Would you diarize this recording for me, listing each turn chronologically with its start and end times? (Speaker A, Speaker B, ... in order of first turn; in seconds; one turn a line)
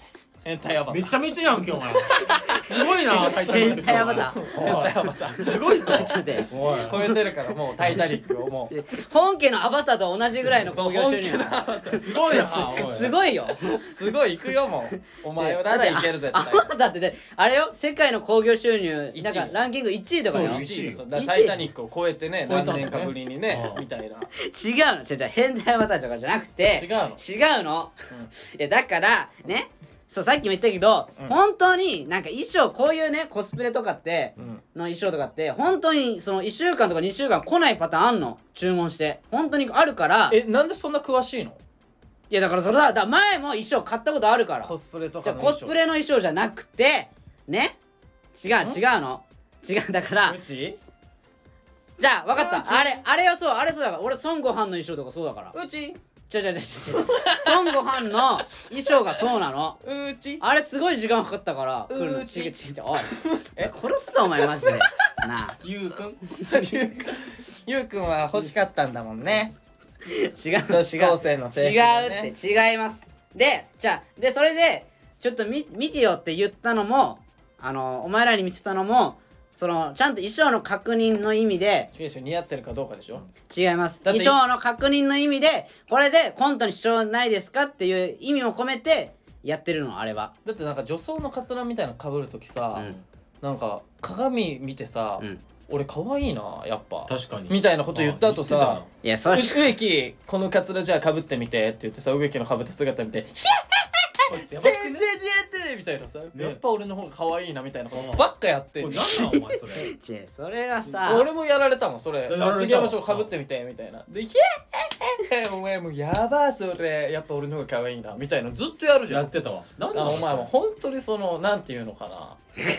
Speaker A: 0.4-8.7
Speaker B: 0.9-7.0
Speaker C: 3.3-4.4
Speaker C: 5.8-7.1
Speaker C: 8.7-13.9
Speaker B: 10.4-10.7
Speaker A: 10.6-12.7
Speaker B: 12.0-13.2
Speaker A: 13.5-16.7
Speaker C: 14.9-20.6
Speaker A: 19.1-19.5
Speaker B: 20.3-21.1
Speaker A: 20.3-24.3
Speaker C: 21.1-21.6
Speaker B: 22.4-23.8
Speaker C: 24.3-40.4
Speaker A: 26.7-27.2
Speaker A: 34.4-34.6
Speaker A: 40.3-41.6
Speaker C: 42.3-47.8
Speaker A: 44.6-45.7
Speaker C: 48.3-50.4
Speaker A: 50.2-50.8
Speaker C: 52.0-55.5
Speaker A: 52.3-53.0
Speaker A: 55.5-56.0
Speaker C: 56.3-59.8
Speaker A: 56.9-57.8
Speaker A: 59.8-60.4
Speaker C: 60.4-65.6
Speaker A: 61.9-63.7
Speaker A: 64.5-65.1
Speaker B: 65.6-66.5
Speaker A: 66.3-69.5
Speaker C: 70.1-81.9
Speaker A: 70.7-72.3
Speaker A: 81.9-83.2
Speaker C: 83.5-90.3
Speaker A: 84.0-84.4
Speaker A: 90.4-109.0
Speaker B: 97.1-98.9
Speaker C: 99.0-99.7
Speaker B: 104.3-105.1
Speaker B: 106.3-106.6
Speaker B: 107.9-109.9
Speaker C: 109.0-111.3
Speaker B: 110.9-111.2
Speaker A: 111.0-119.3
Speaker B: 112.3-113.3
Speaker B: 119.1-120.5
Speaker A: 119.9-122.4